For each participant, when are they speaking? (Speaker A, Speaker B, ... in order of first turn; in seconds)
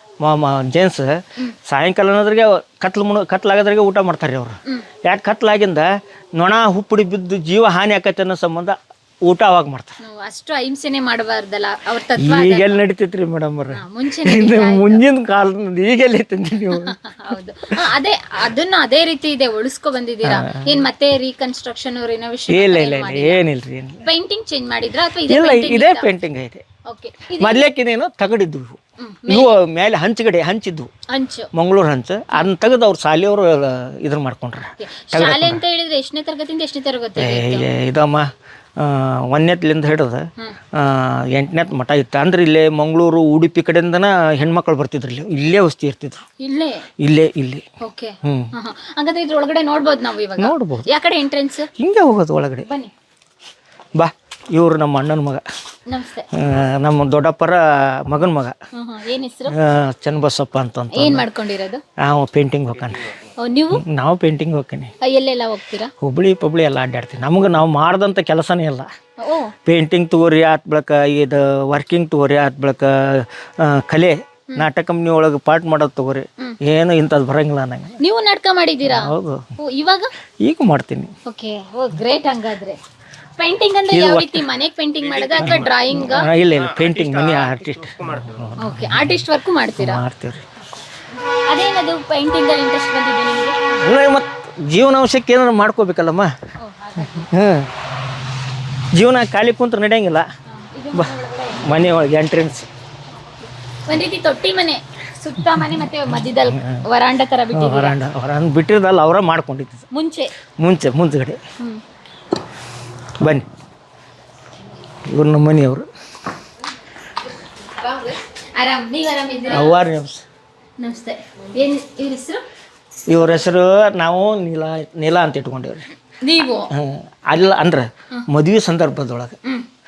Speaker A: 0.2-10.0, 12.2-17.8, 20.2-20.8, 22.5-24.0, 25.3-26.6, 27.4-30.9, 31.5-35.6, 37.2-46.2, 47.0-47.6, 48.2-48.5, 50.4-50.9, 51.8-52.7, 54.0-55.4, 56.3-58.5, 59.5-61.3, 62.0-63.1, 63.7-64.9, 66.0-68.9, 69.7-78.0, 78.9-79.5, 80.4-81.1, 83.9-84.5, 85.4-89.2, 89.8-90.5, 93.8-96.3, 97.0-97.7, 98.9-100.2, 100.9-102.7, 106.5-106.8, 107.5-109.8, 110.6-111.4, 113.2-113.5, 115.1-115.9, 119.5-120.2, 123.1-125.9, 126.7-129.4
Speaker B: 10.0-12.8, 13.7-15.0, 16.8-23.4, 24.0-26.1, 26.9-27.7, 29.0-29.5, 31.1-31.5, 34.8-37.7, 46.4-46.9, 47.8-51.7, 52.6-52.9, 55.9-56.3, 58.7-59.5, 60.9-61.8, 63.4-63.8, 65.0-65.9, 69.2-69.5, 78.0-80.1, 81.3-82.8, 83.4-86.3, 88.6-90.0, 91.5-93.6, 96.6-97.3, 100.5-101.9, 103.9-108.0, 109.9-110.3, 117.7-119.8, 120.8-122.4, 126.2-126.7